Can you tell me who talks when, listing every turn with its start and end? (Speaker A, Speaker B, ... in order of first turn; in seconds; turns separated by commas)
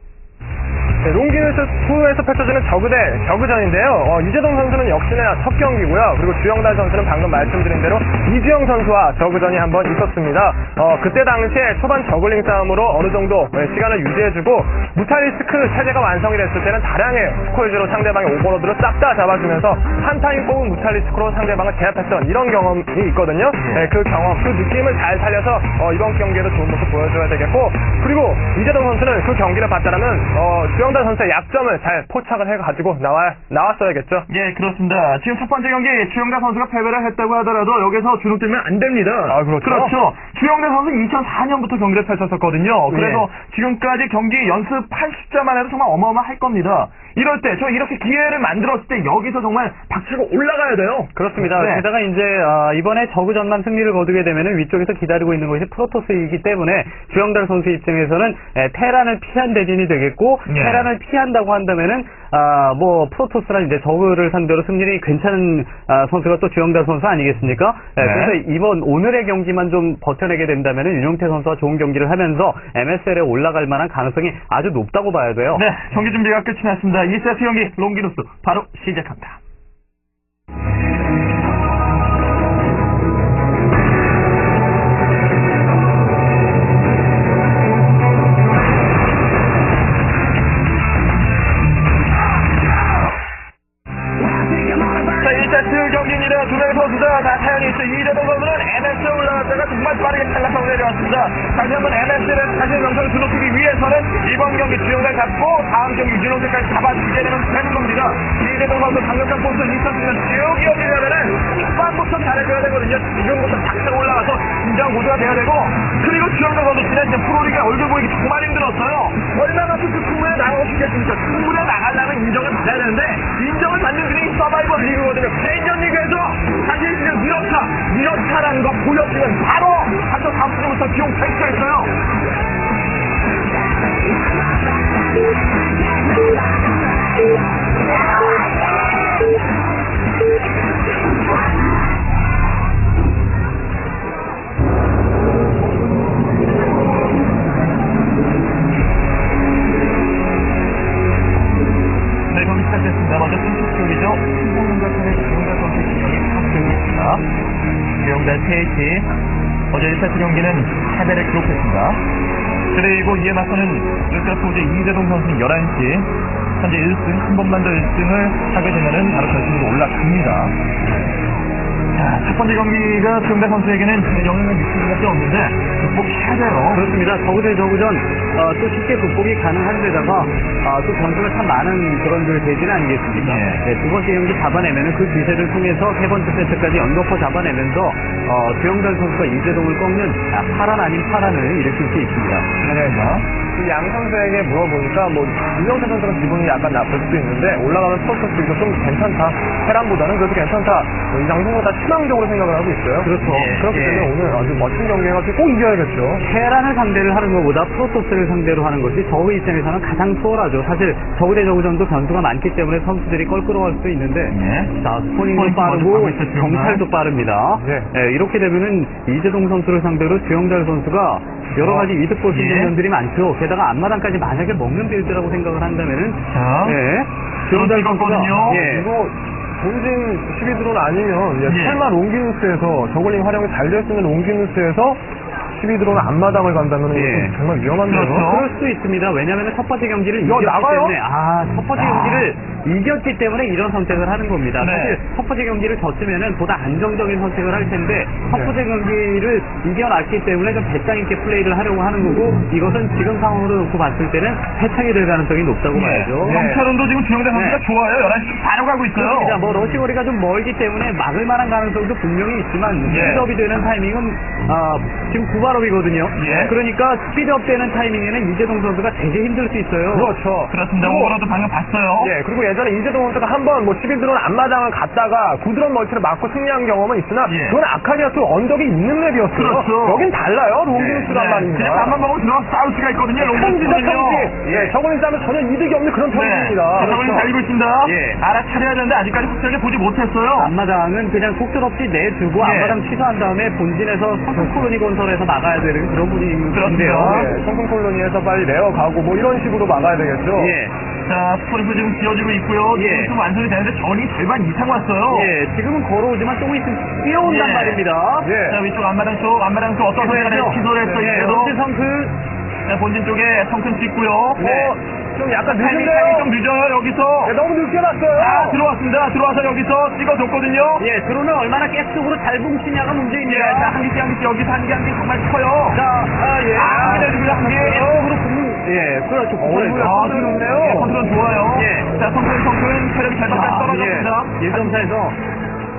Speaker A: 1.0-34.3, Speaker B: 23.6-23.9, Speaker B: 34.3-51.9, Speaker A: 39.3-40.0, Speaker A: 42.9-43.3, Speaker C: 51.1-75.7, Speaker B: 60.5-60.9, Speaker B: 68.0-68.4, Speaker B: 75.5-79.4, Speaker A: 94.8-95.0, Speaker B: 95.2-125.1, Speaker A: 124.8-126.6, Speaker B: 126.6-131.9, Speaker B: 152.3-157.3, Speaker B: 158.0-159.1, Speaker B: 159.7-162.0, Speaker B: 162.7-170.6, Speaker B: 171.9-176.9, Speaker C: 176.7-192.5, Speaker B: 183.2-183.7, Speaker B: 192.6-193.3, Speaker A: 193.5-206.2, Speaker C: 203.0-203.6, Speaker B: 203.2-204.1, Speaker C: 206.2-228.9, Speaker B: 214.3-214.8, Speaker B: 215.3-216.8, Speaker A: 217.6-217.9, Speaker B: 221.6-222.8, Speaker B: 226.3-226.8, Speaker B: 227.5-228.6, Speaker A: 228.3-235.0, Speaker B: 231.4-231.8, Speaker A: 235.5-238.3, Speaker C: 236.9-237.4, Speaker B: 237.9-238.5, Speaker C: 238.1-256.5, Speaker A: 240.2-241.0, Speaker B: 241.8-242.3, Speaker B: 244.6-245.0, Speaker B: 248.3-248.6, Speaker B: 255.7-259.4, Speaker A: 256.3-256.7, Speaker C: 257.3-257.6, Speaker C: 258.9-270.2, Speaker B: 262.9-263.3, Speaker B: 266.1-266.6, Speaker A: 269.9-271.2, Speaker B: 270.5-272.1, Speaker A: 272.0-282.0, Speaker B: 277.2-277.6, Speaker B: 279.3-280.1, Speaker B: 280.7-284.4, Speaker A: 283.2-287.3, Speaker C: 283.6-284.7, Speaker B: 286.1-290.5, Speaker C: 286.8-287.3, Speaker C: 287.8-288.2, Speaker C: 290.4-297.3, Speaker B: 292.4-292.8, Speaker B: 296.5-297.3, Speaker A: 296.8-300.6, Speaker C: 300.4-300.8, Speaker B: 301.1-305.3, Speaker C: 302.7-303.1, Speaker C: 305.1-308.3, Speaker B: 307.2-307.9, Speaker A: 308.2-308.6, Speaker B: 308.4-311.6, Speaker C: 310.0-312.2, Speaker B: 312.7-314.7, Speaker A: 314.4-316.3, Speaker B: 315.5-317.4, Speaker A: 317.2-318.6, Speaker B: 318.1-320.9, Speaker C: 320.8-323.8, Speaker B: 323.2-325.8, Speaker C: 325.7-330.1, Speaker B: 326.5-328.1, Speaker A: 329.4-331.0, Speaker B: 329.8-334.9, Speaker C: 331.5-331.9, Speaker C: 333.3-335.2